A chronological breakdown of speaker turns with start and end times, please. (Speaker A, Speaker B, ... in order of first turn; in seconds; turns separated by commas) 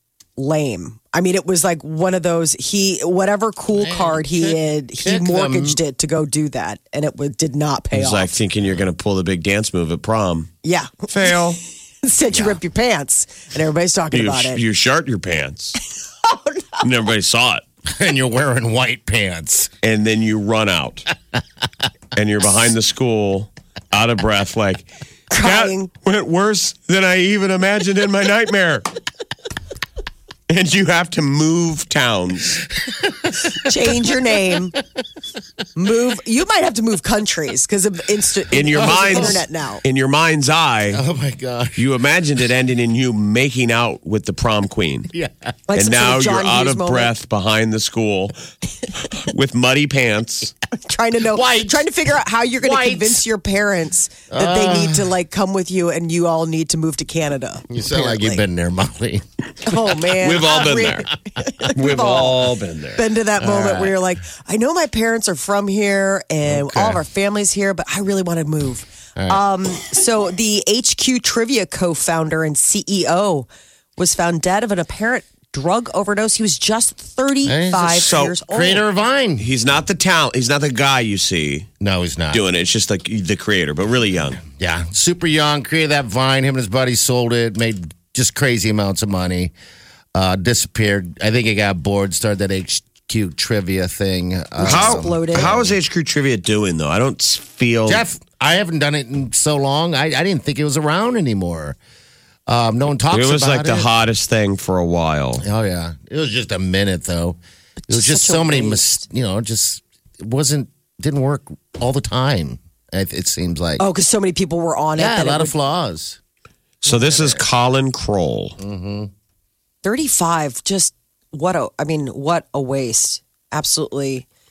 Speaker A: 0.4-8.3, Speaker B: 3.7-5.8, Speaker C: 7.9-10.5, Speaker A: 10.6-11.1, Speaker C: 11.1-11.6, Speaker A: 12.0-14.6, Speaker B: 12.3-12.6, Speaker C: 14.1-15.8, Speaker A: 16.2-16.8, Speaker C: 16.8-17.6, Speaker B: 17.9-19.7, Speaker C: 19.8-21.1, Speaker C: 22.1-28.9, Speaker A: 25.3-25.9, Speaker C: 30.5-32.6, Speaker B: 33.0-33.7, Speaker A: 33.6-34.7, Speaker A: 35.8-39.8, Speaker C: 38.5-41.0, Speaker B: 38.7-39.4, Speaker B: 40.9-41.8, Speaker C: 41.8-45.1, Speaker B: 45.1-45.5, Speaker A: 45.7-47.1, Speaker C: 45.8-48.4, Speaker C: 49.1-50.5, Speaker A: 50.8-58.4, Speaker B: 51.3-51.9, Speaker B: 52.6-53.2, Speaker B: 54.3-55.1, Speaker B: 57.7-59.2, Speaker A: 59.6-62.4, Speaker C: 60.0-61.1, Speaker B: 60.4-61.7, Speaker C: 61.7-63.0, Speaker A: 63.0-78.8, Speaker B: 63.4-64.0, Speaker B: 66.4-67.0, Speaker B: 69.2-69.4, Speaker B: 77.4-79.5, Speaker C: 77.8-78.4, Speaker C: 79.4-81.7, Speaker B: 81.8-82.4, Speaker C: 82.3-84.4, Speaker B: 84.4-89.5, Speaker B: 90.1-95.8, Speaker A: 94.6-95.5, Speaker C: 94.7-98.0, Speaker B: 97.9-101.8, Speaker B: 102.5-103.9, Speaker C: 103.1-105.4, Speaker B: 105.4-113.8, Speaker A: 107.9-109.0, Speaker A: 113.8-115.5, Speaker B: 115.0-116.2, Speaker C: 116.8-118.6, Speaker B: 116.8-117.4, Speaker B: 118.6-119.1, Speaker A: 119.8-124.2